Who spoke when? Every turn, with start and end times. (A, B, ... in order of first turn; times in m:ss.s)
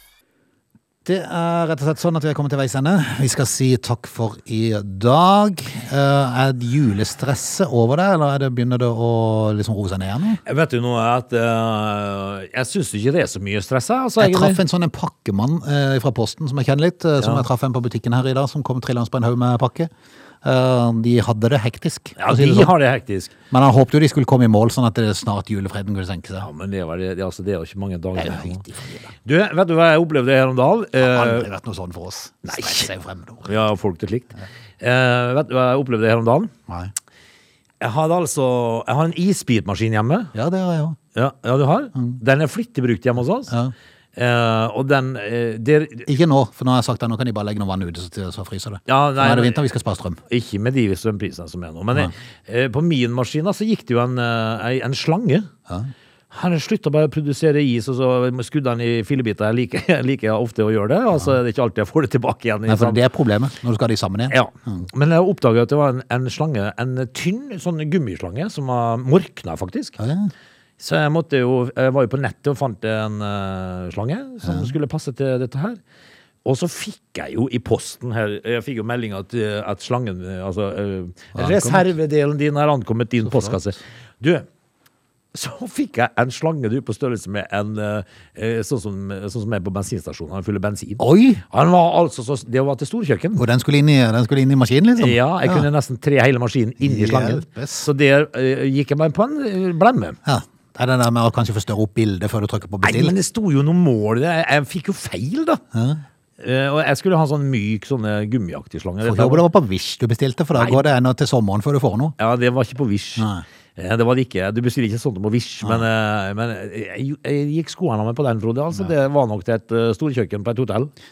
0:01.0-0:10.4 A
0:10.4-0:14.6 B
0:14.2-0:19.9 A
0:20.4-0:22.7 A
0:22.2-0:23.3 B
0:23.5-0:26.5 A
0:26.4-0:28.6 B
0:28.2-0:29.1 A
0:29.2-0:31.5 B
0:31.0-0:33.5 A
0:32.5-0:32.9 B
0:33.4-0:36.5 B
0:36.7-0:36.9 A
0:37.8-0:40.3 B
0:40.3-0:41.0 A
0:41.2-0:43.5 B
0:43.5-0:43.7 A
0:44.2-0:46.1 B
0:46.1-0:50.2 A
0:48.9-0:49.6 B
0:50.3-0:55.5 B
0:56.3-1:03.0 B
1:02.7-1:04.8 A
1:04.3-1:10.0 B
1:10.0-1:10.3 A
1:10.8-1:15.8 B
1:14.4-1:14.7 A
1:16.4-1:24.5 B
1:21.4-1:21.9 A
1:23.2-1:23.6 A
1:25.3-1:33.4 B
1:31.0-1:31.4 A
1:33.4-1:35.7 A
1:35.0-1:40.2 B
1:36.8-1:37.9 A
1:40.3-1:43.1 A
1:42.8-1:45.6 B
1:45.7-1:46.0 A
1:46.4-1:49.4 B
1:49.0-1:52.2 A
1:50.6-1:50.8 B
1:52.2-2:00.9 B
1:53.2-1:53.4 A